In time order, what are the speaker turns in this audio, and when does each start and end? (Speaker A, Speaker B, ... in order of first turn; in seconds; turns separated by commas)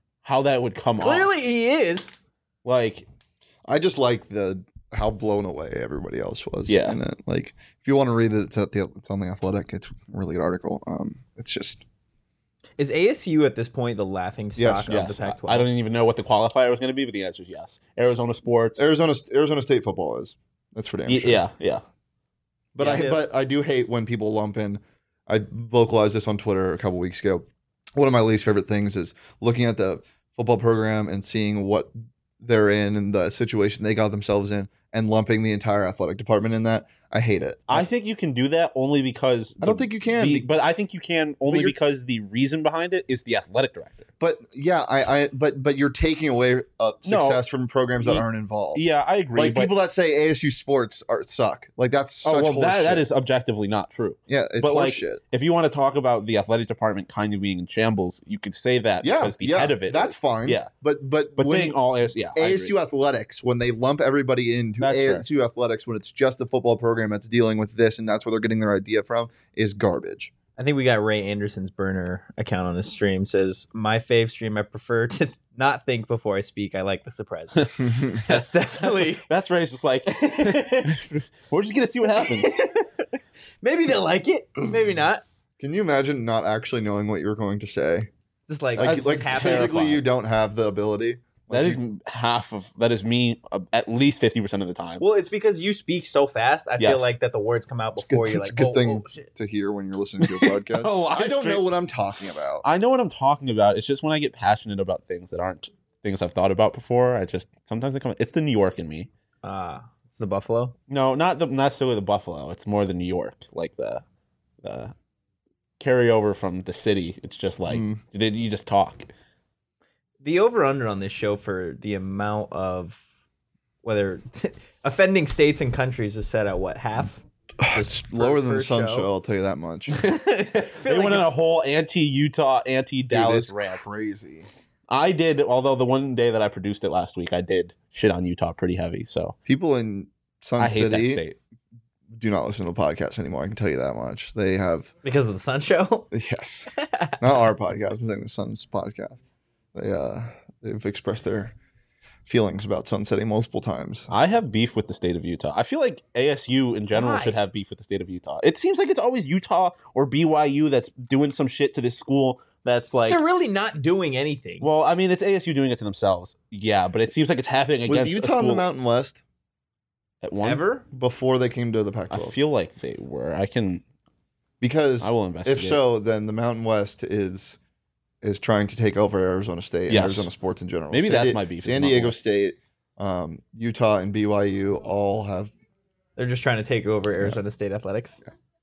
Speaker A: 0.2-1.3, Speaker B: 1.0-2.1, Speaker A: 2.6-3.1, Speaker C: 3.7-11.8, Speaker A: 6.7-7.0, Speaker B: 12.8-15.7, Speaker C: 14.6-14.9, Speaker A: 14.9-18.9, Speaker C: 18.8-21.4, Speaker A: 21.1-21.8, Speaker C: 22.7-37.9, Speaker B: 22.8-23.2, Speaker A: 37.7-44.1, Speaker C: 39.6-40.5, Speaker C: 41.5-41.8, Speaker C: 44.2-48.8, Speaker A: 47.0-47.4, Speaker A: 48.0-49.7, Speaker C: 49.4-53.0, Speaker A: 52.2-60.7, Speaker C: 54.3-55.2, Speaker C: 59.0-61.8, Speaker A: 61.4-62.8, Speaker C: 62.4-70.3, Speaker A: 64.8-65.3, Speaker B: 70.6-79.3, Speaker C: 77.8-78.2, Speaker A: 78.3-82.7, Speaker B: 80.3-81.0, Speaker B: 82.1-83.1, Speaker B: 83.6-85.2, Speaker C: 85.6-88.1, Speaker B: 88.5-90.1, Speaker C: 88.8-91.8, Speaker A: 91.5-95.0, Speaker B: 95.0-99.3, Speaker A: 96.8-97.2, Speaker C: 98.0-102.7, Speaker A: 100.2-101.7, Speaker A: 102.6-109.1, Speaker B: 109.4-110.7, Speaker A: 110.9-114.0, Speaker A: 114.6-114.9, Speaker A: 115.8-119.1, Speaker C: 117.7-118.0, Speaker B: 120.2-123.0, Speaker B: 123.8-129.1, Speaker C: 127.6-129.9, Speaker B: 129.9-131.3, Speaker A: 130.0-133.8, Speaker C: 133.1-134.5, Speaker A: 134.9-139.4, Speaker C: 139.5-141.2, Speaker A: 140.6-141.4, Speaker C: 142.1-144.9, Speaker B: 145.0-146.1, Speaker C: 146.1-149.2, Speaker B: 146.8-147.2, Speaker C: 149.8-151.5, Speaker C: 152.3-154.1, Speaker A: 154.1-163.2, Speaker B: 156.9-157.4, Speaker B: 163.1-164.7, Speaker A: 164.6-168.7, Speaker C: 167.9-169.2, Speaker A: 170.2-170.6, Speaker B: 170.4-170.8, Speaker C: 170.9-172.4, Speaker A: 172.1-173.8, Speaker C: 174.6-177.6, Speaker A: 175.0-175.8, Speaker C: 178.2-185.5, Speaker A: 179.9-180.3, Speaker A: 180.9-182.2, Speaker B: 186.2-188.2